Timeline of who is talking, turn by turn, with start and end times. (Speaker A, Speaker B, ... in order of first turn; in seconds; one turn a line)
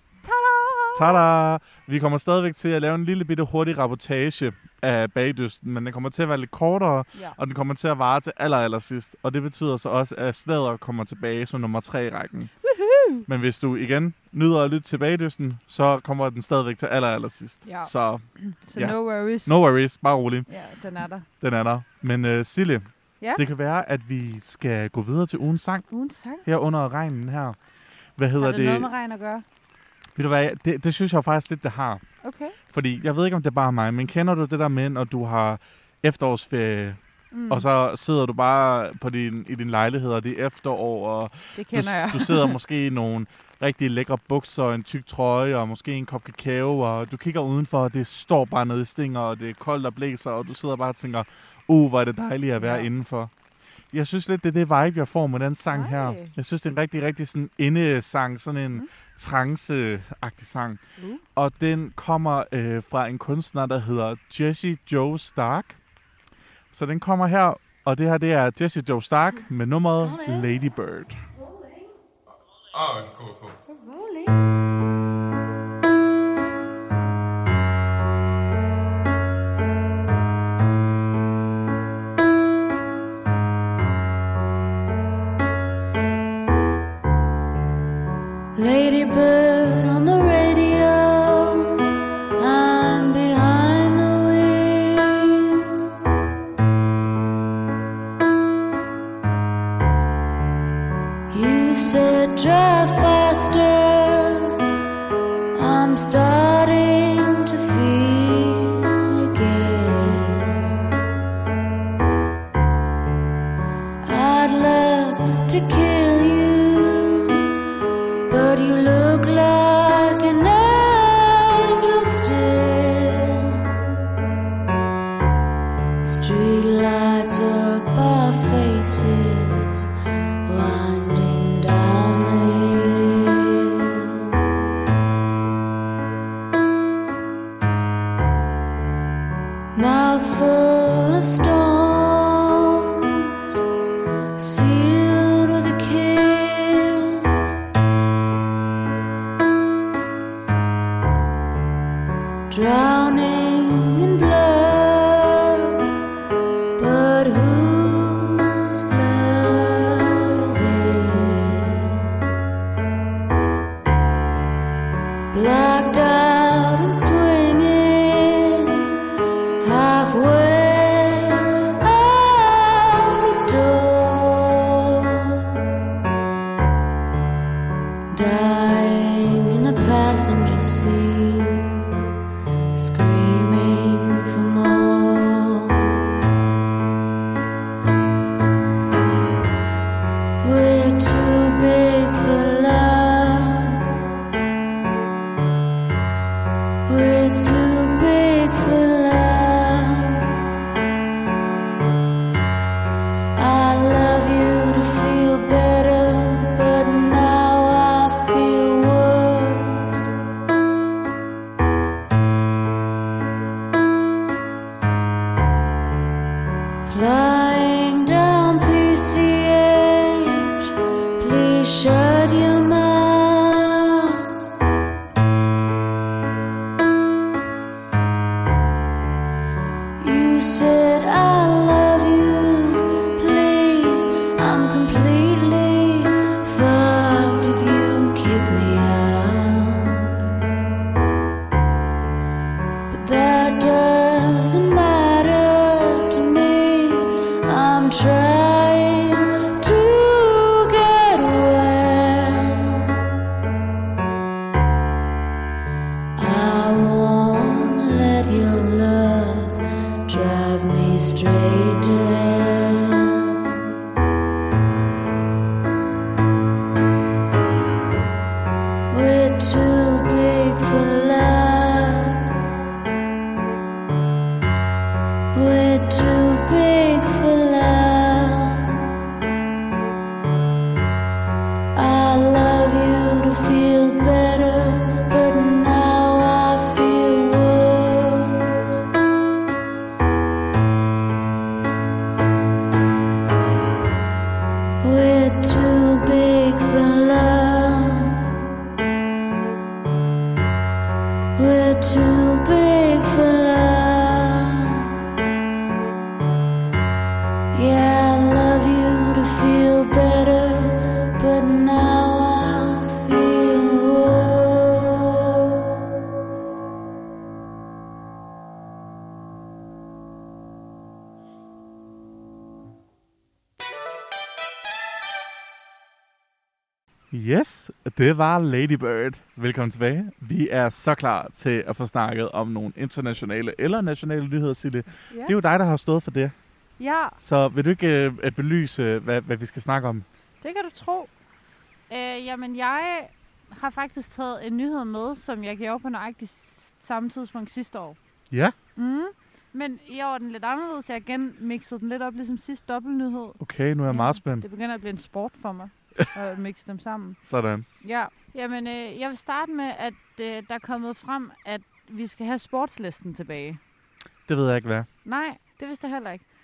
Speaker A: 0.2-1.2
Speaker B: 1.0-12.5
Speaker A: 12.6-13.3
Speaker B: 13.3-18.2
Speaker A: 17.6-19.6
Speaker B: 18.8-20.5
Speaker A: 20.5-21.3
Speaker B: 21.4-25.9
Speaker A: 25.9-26.4
Speaker B: 26.4-27.6
Speaker B: 28.2-28.9
Speaker A: 28.4-29.4
Speaker B: 30.1-32.0
Speaker A: 32.2-32.6
Speaker B: 32.7-53.3
Speaker A: 37.3-37.7
Speaker A: 41.5-42.6
Speaker A: 52.6-52.9
Speaker B: 53.9-60.8
Speaker A: 55.7-56.4
Speaker A: 61.0-61.2
Speaker B: 61.4-65.8
Speaker B: 66.7-71.2
Speaker B: 72.8-73.5
Speaker A: 73.7-74.3
Speaker C: 88.5-95.8
Speaker C: 101.3-104.6
Speaker C: 105.5-110.7
Speaker C: 114.0-117.5
Speaker C: 118.3-123.7
Speaker C: 126.0-129.9
Speaker C: 130.5-134.2
Speaker C: 139.8-143.6
Speaker C: 144.4-147.5
Speaker C: 152.5-155.9
Speaker C: 156.8-162.1
Speaker C: 165.3-169.0
Speaker C: 169.6-175.5
Speaker C: 178.1-181.8
Speaker C: 182.8-186.0
Speaker C: 190.4-194.0
Speaker C: 196.9-200.4
Speaker C: 203.4-210.1
Speaker C: 216.9-224.3
Speaker C: 230.0-240.3
Speaker C: 242.9-253.0
Speaker C: 256.2-263.6
Speaker C: 268.9-272.3
Speaker C: 275.3-278.9
Speaker C: 281.8-288.6
Speaker C: 294.8-298.4
Speaker C: 301.4-305.0
Speaker C: 307.5-315.6
Speaker B: 327.1-336.3
Speaker A: 336.8-337.2
Speaker B: 337.2-340.1
Speaker A: 340.4-341.1
Speaker A: 341.9-348.0
Speaker B: 348.3-348.6
Speaker A: 348.8-357.2
Speaker B: 353.4-354.4
Speaker B: 357.2-357.7
Speaker A: 357.8-363.6
Speaker B: 364.3-364.9
Speaker A: 365.1-366.3